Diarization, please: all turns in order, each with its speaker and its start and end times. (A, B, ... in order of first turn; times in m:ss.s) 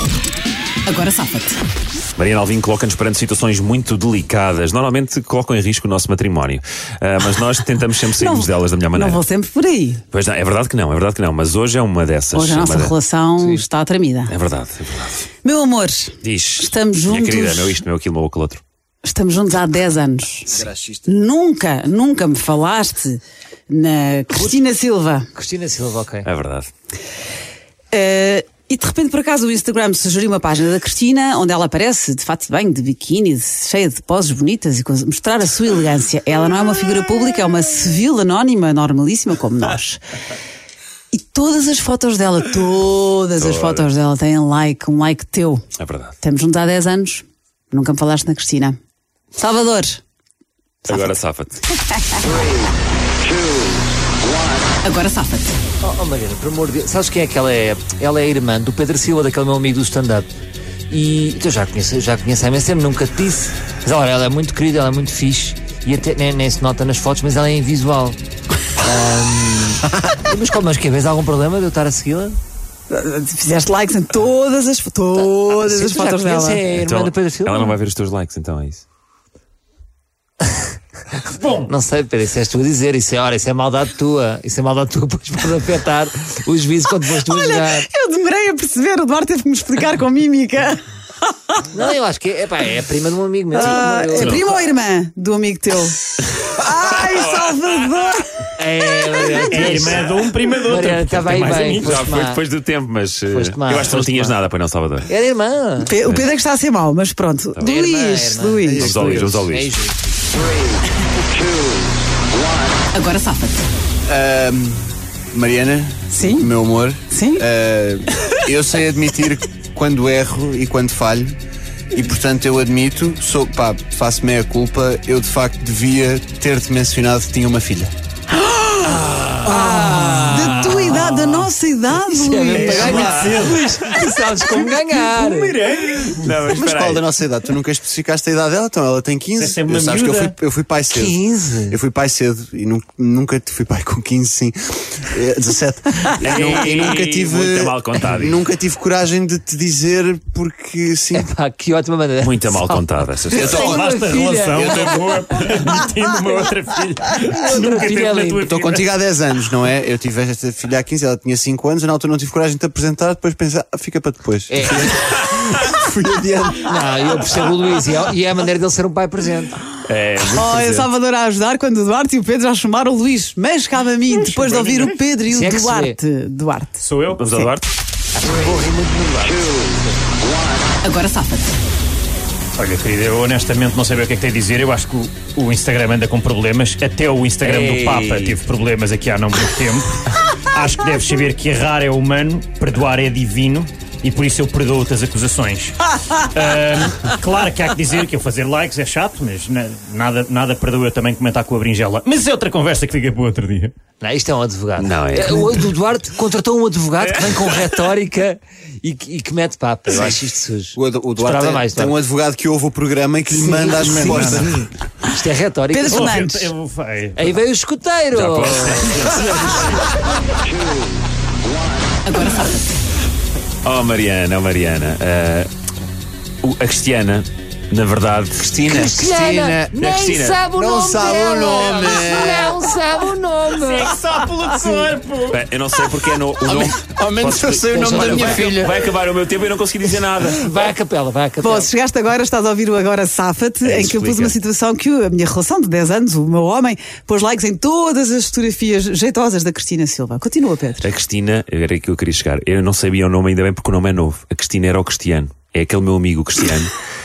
0:00.9-0:01.6 A
0:02.2-0:09.2 B
0:08.2-0:10.0 A
0:10.1-0:13.0 B
0:12.3-0:14.3 A
0:14.3-0:15.3 B
0:15.4-0:17.8 A
0:16.2-0:18.6 B
0:19.0-0:20.5 A
0:20.5-0:21.1 C
0:21.1-0:25.3 A
0:25.4-0:26.3 D
0:26.2-0:26.7 B
0:27.9-0:40.0 A
0:41.1-0:45.6 A
0:43.4-0:43.9 B
0:45.8-0:46.2 B
0:46.2-0:48.8 A
0:49.4-0:50.0 A
0:50.8-0:51.1 A
0:50.9-0:51.6 B
0:51.9-0:52.2 A
0:54.8-0:55.6 A
0:55.8-1:00.3 D
1:00.9-1:08.2 D
1:08.8-1:12.4 D
1:12.9-1:16.6 A
1:15.2-1:17.8 D
1:16.8-1:18.8 B
1:21.3-1:21.7 E
1:21.5-1:27.9 D
1:27.2-1:30.8 A
1:31.7-1:34.7 D
1:33.5-1:38.4 A
1:33.6-1:34.5 B
1:37.0-1:37.5 B
1:38.6-1:40.1 D
1:39.2-1:39.9 A
1:39.4-1:42.0 E
1:40.7-1:42.4 D
1:41.7-1:45.1 B
1:43.3-1:44.4 D
1:45.1-1:46.0 D
1:45.8-1:48.9 A
1:46.0-1:46.3 B
1:47.6-1:48.7 D
1:48.6-1:49.4 C
1:48.8-1:49.7 B
1:49.5-1:50.0 D
1:52.9-1:53.6 A
1:54.1-2:01.4 C
1:56.1-1:56.5 A
1:57.1-1:57.4 A
2:01.9-2:07.9 C
2:08.4-2:13.3 A
2:08.8-2:15.6 D
2:12.5-2:13.8 E
2:12.6-2:13.5 C
2:14.5-2:16.3 E
2:16.0-2:17.0 B
2:16.5-2:31.3 C
2:19.4-2:20.4 E
2:20.9-2:21.8 D
2:26.2-2:28.4 B
2:26.2-2:27.0 E
2:31.1-2:35.0 D
2:32.2-2:33.8 B
2:33.3-2:33.9 C
2:33.6-2:38.9 E
2:34.5-2:35.0 C
2:37.4-2:38.4 D
2:38.4-2:46.8 C
2:44.5-2:45.1 D
2:46.6-2:49.6 D
2:49.9-2:50.9 B
2:50.3-2:57.5 A
2:54.1-2:55.0 E
2:55.3-2:56.0 D
2:56.8-2:57.2 E
2:57.2-2:57.6 B
2:58.2-2:59.9 D
3:00.8-3:01.6 A
3:02.6-3:23.7 E
3:07.4-3:08.4 D
3:24.0-3:32.0 D
3:24.8-3:25.7 B
3:27.0-3:27.7 E
3:29.9-3:30.2 C
3:30.7-3:34.6 C
3:33.4-3:36.0 D
3:33.8-3:34.5 E
3:35.7-3:36.5 A
3:35.8-3:37.3 E
3:37.2-3:39.1 D
3:38.1-3:39.8 B
3:42.1-3:42.6 A
3:43.6-3:45.5 B
3:46.4-3:48.5 B
3:48.4-3:49.7 C
3:48.6-3:54.0 D
3:49.7-3:50.5 B
3:50.5-3:52.6 C
3:53.6-3:55.4 E
3:55.3-4:00.5 B
3:56.4-3:58.9 C
3:57.7-3:58.6 D
4:00.4-4:01.7 D
4:01.4-4:10.9 A
4:03.6-4:04.4 B
4:10.8-4:16.7 B